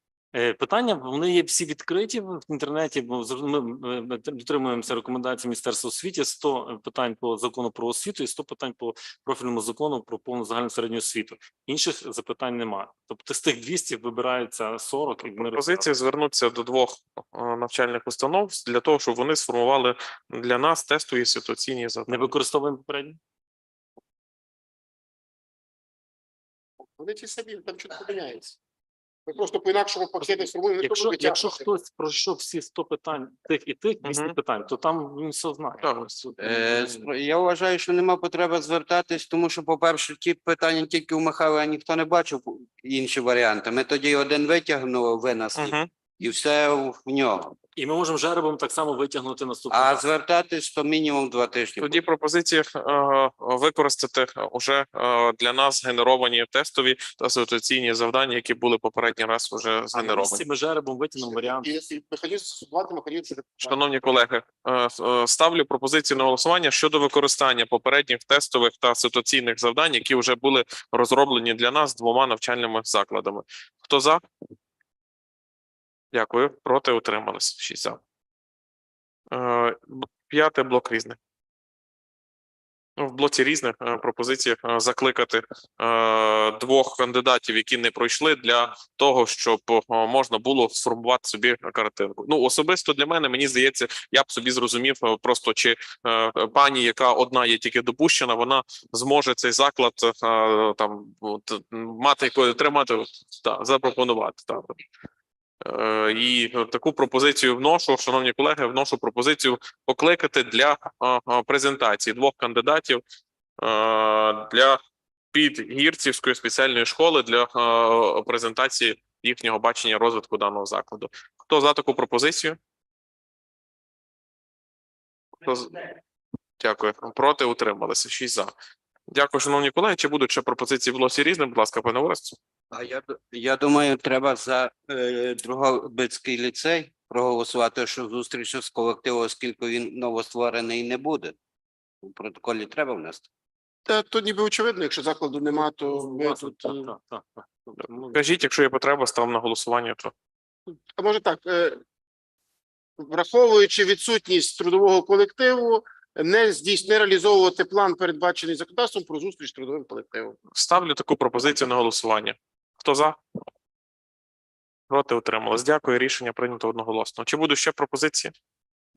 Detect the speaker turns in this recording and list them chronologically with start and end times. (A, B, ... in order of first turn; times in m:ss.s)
0:00.3-0:15.9 A
0:15.2-0:22.3 B
0:22.1-0:23.2 A
0:27.0-0:28.6 C
0:29.3-0:31.6 C
0:30.8-0:35.8 A
0:34.0-0:34.4 B
0:35.8-0:36.3 B
0:36.4-0:47.6 D
0:45.6-0:45.9 B
0:47.8-0:50.0 A
0:49.7-0:52.0 D
0:51.8-1:00.4 B
0:59.9-1:01.7 A
1:01.2-1:03.8 C
1:03.6-1:14.2 B
1:16.1-1:18.0 B
1:19.3-1:21.2 B
1:23.0-1:44.8 B
1:45.6-1:53.0 B
1:53.6-1:54.8 B
1:55.3-2:02.6 B
2:05.4-2:05.9 B
2:06.6-2:08.5 B
2:09.1-2:12.4 B
2:12.7-2:21.4 D
2:22.0-2:23.3 D
2:23.9-2:26.9 C
2:25.8-2:28.3 A
2:28.1-2:30.1 B
2:30.7-2:31.8 C
2:33.0-2:40.4 C
2:40.6-2:43.2 B
2:44.9-2:48.3 B